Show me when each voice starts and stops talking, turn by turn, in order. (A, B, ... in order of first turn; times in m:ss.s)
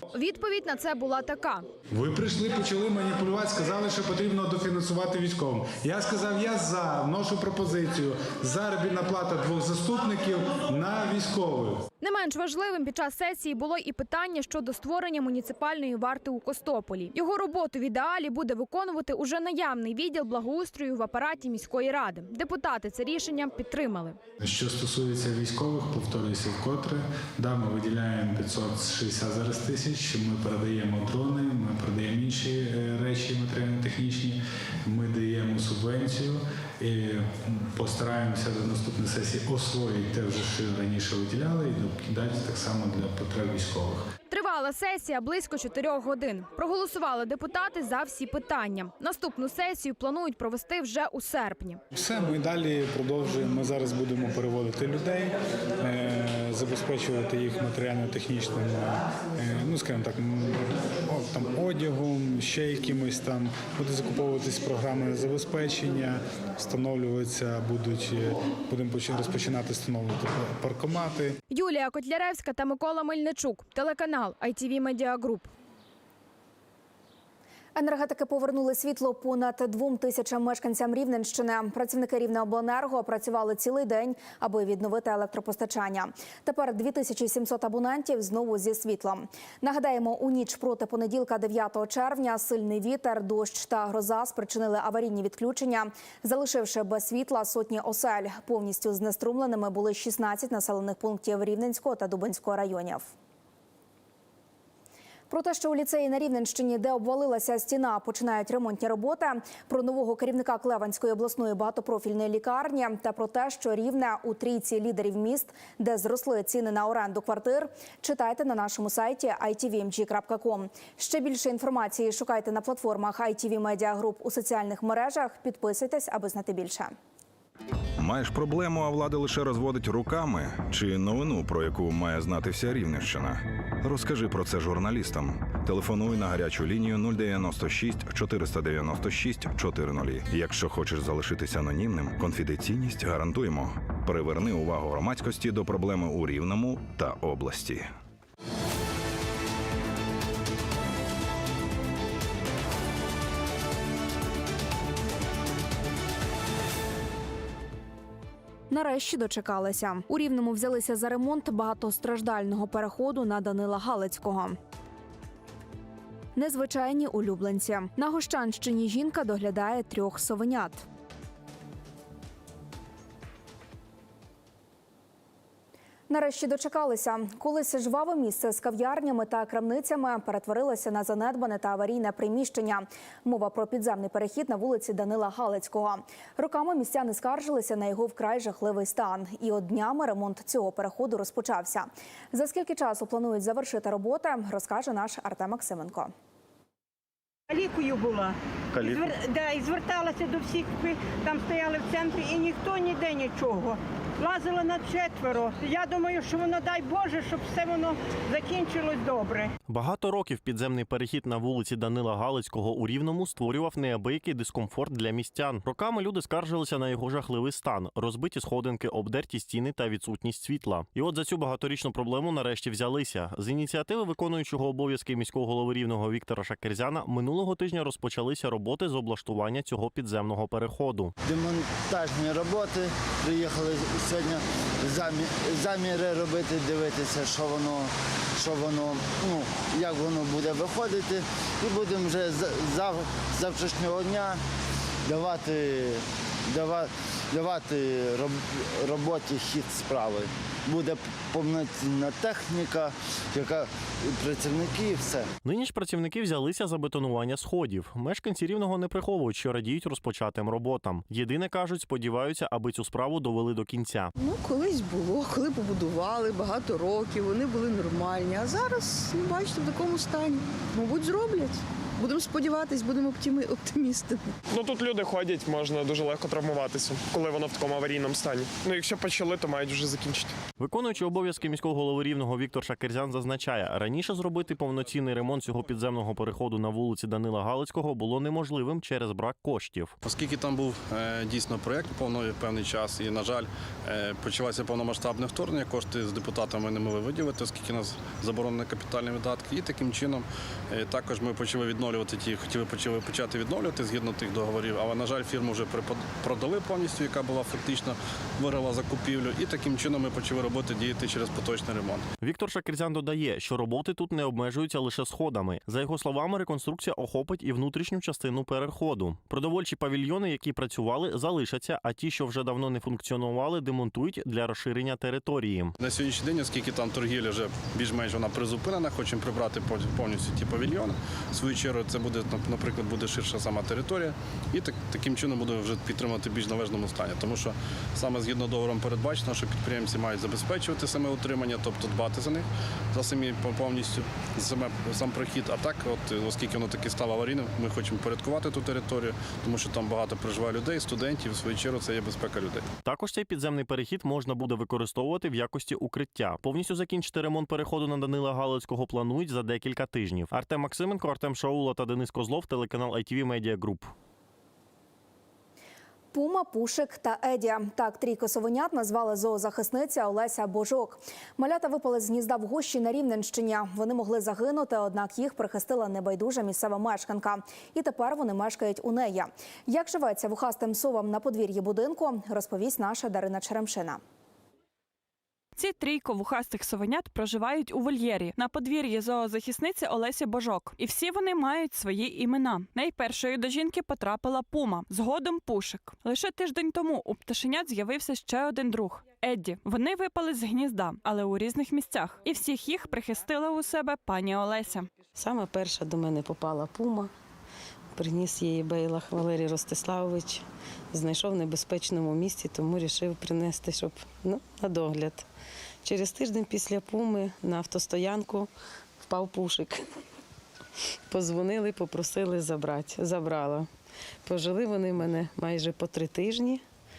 0:00.1-0:01.6 A
0:01.9-0:11.8 B
0:12.0-0:24.2 A
0:24.4-0:44.0 B
0:44.3-0:51.8 A
0:51.9-1:11.4 B
1:11.5-1:15.5 A
1:17.7-1:43.1 C
1:45.3-2:06.9 C
2:08.0-2:27.9 D
2:38.7-2:44.6 C
2:46.4-2:50.8 C
2:56.1-3:16.1 C
3:17.5-3:29.5 E
3:29.7-3:51.1 F
3:51.2-4:04.4 G
4:05.0-4:15.3 G
4:15.4-4:24.1 F
4:24.2-4:34.3 H
4:34.5-4:40.3 I
4:40.6-4:49.9 F
4:50.0-5:12.1 J
5:12.2-5:25.7 F
5:25.8-5:52.6 J
5:52.8-6:03.9 F
6:06.1-6:24.0 C
6:25.6-6:44.9 K
6:45.2-6:47.1 L
6:47.9-6:55.2 L
6:55.8-6:58.5 L
6:59.0-6:59.8 L
7:01.1-7:03.7 L
7:04.2-7:06.6 L